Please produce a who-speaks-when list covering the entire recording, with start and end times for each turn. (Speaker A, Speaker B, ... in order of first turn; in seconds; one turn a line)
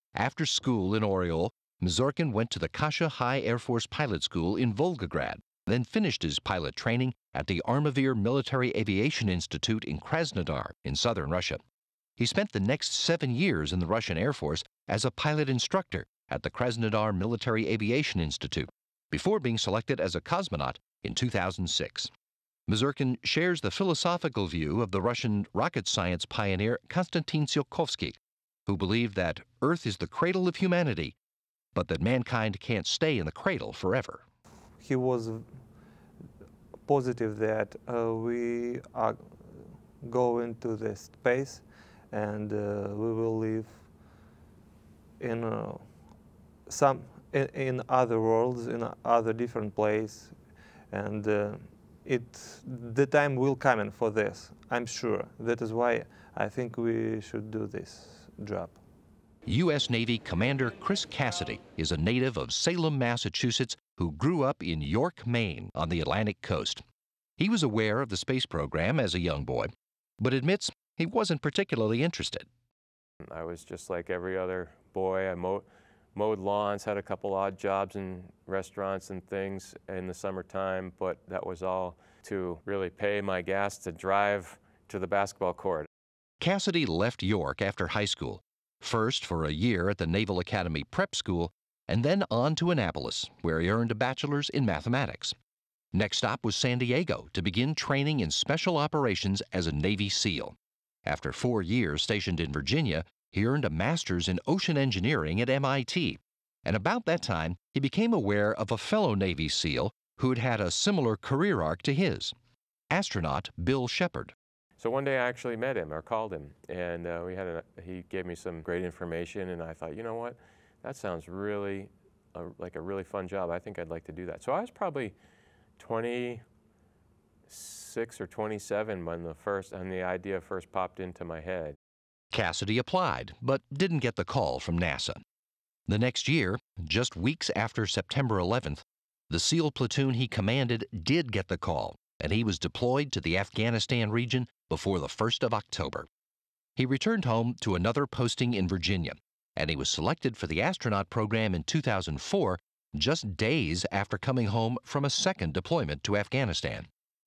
Speaker A: 0.1-11.6
Speaker A: 12.2-22.1
Speaker A: 22.7-31.1
Speaker A: 31.7-34.2
Speaker B: 34.8-35.5
Speaker B: 36.9-43.9
Speaker B: 45.2-46.1
Speaker B: 46.7-50.4
Speaker B: 50.9-58.8
Speaker A: 59.5-66.8
Speaker A: 67.4-72.5
Speaker C: 73.3-85.9
Speaker A: 86.4-95.3
Speaker A: 95.9-112.3
Speaker A: 112.9-114.3
Speaker C: 114.8-125.1
Speaker C: 125.8-126.4
Speaker C: 127.5-131.8
Speaker A: 132.3-135.2
Speaker A: 135.9-146.1
Speaker A: 146.8-156.9